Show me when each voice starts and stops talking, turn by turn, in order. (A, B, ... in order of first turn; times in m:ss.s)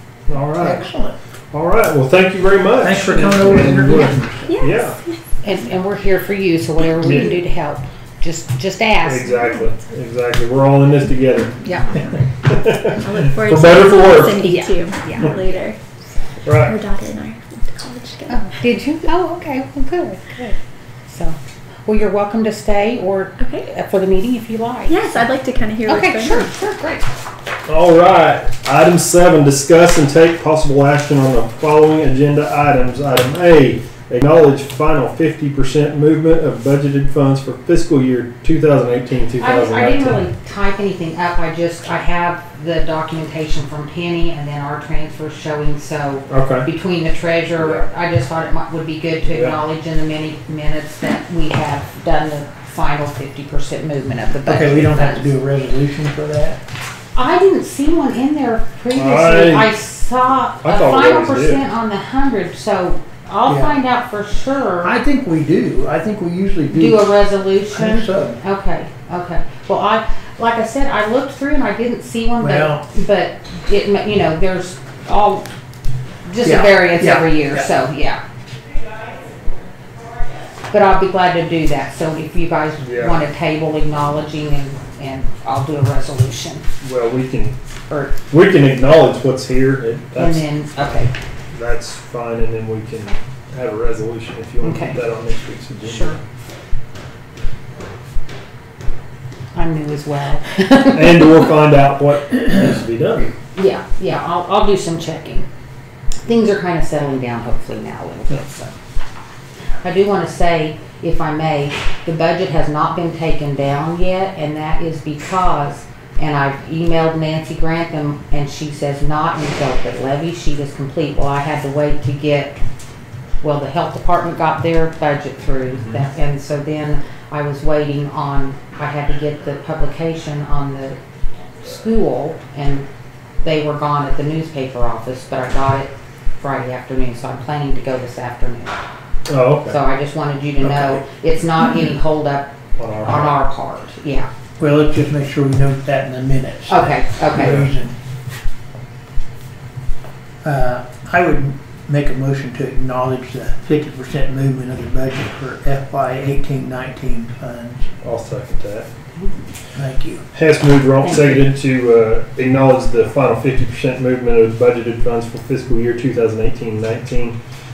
0:00.3-0:00.8 A
0:00.6-0:01.2 B
0:01.5-0:05.0 A
0:02.8-0:04.5 B
0:04.5-0:05.2 C
0:05.4-0:09.4 D
0:07.0-0:07.3 A
0:09.0-0:11.6 A
0:11.6-0:12.0 D
0:12.5-0:14.6 A
0:13.0-0:15.8 C
0:14.4-0:15.3 D
0:16.4-0:16.8 A
0:16.6-0:18.5 C
0:18.3-0:25.3 D
0:23.4-0:23.6 C
0:24.9-0:26.5 C
0:25.8-0:27.1 D
0:27.6-0:40.2 A
0:39.4-0:55.3 D
0:46.3-0:46.7 A
0:47.6-0:47.8 A
0:49.3-0:49.6 A
0:54.4-0:56.6 B
0:57.1-1:05.0 D
0:58.9-0:59.7 A
1:00.6-1:01.6 A
1:03.4-1:03.8 B
1:04.8-1:07.2 B
1:06.7-1:15.5 D
1:07.7-1:08.4 B
1:12.4-1:12.8 B
1:16.2-1:18.2 D
1:16.4-1:17.7 B
1:20.7-1:26.6 D
1:22.8-1:23.2 A
1:26.8-1:27.6 A
1:27.9-1:28.2 D
1:28.3-1:30.4 A
1:30.2-1:31.1 D
1:31.5-1:36.2 A
1:34.6-1:35.0 D
1:35.8-1:36.2 D
1:39.5-1:41.5 D
1:40.9-1:43.3 A
1:43.5-1:45.5 D
1:46.2-1:48.7 D
1:49.8-2:02.6 D
2:03.4-2:11.0 D
2:11.6-2:12.8 D
2:13.4-2:18.8 D
2:19.3-2:19.8 A
2:19.6-2:24.3 D
2:20.6-2:21.0 B
2:22.8-2:23.4 A
2:24.6-2:27.9 B
2:26.7-2:27.6 D
2:30.4-2:37.9 B
2:38.0-2:38.9 A
2:39.8-2:40.2 B
2:40.3-2:47.4 A
2:41.0-2:41.5 D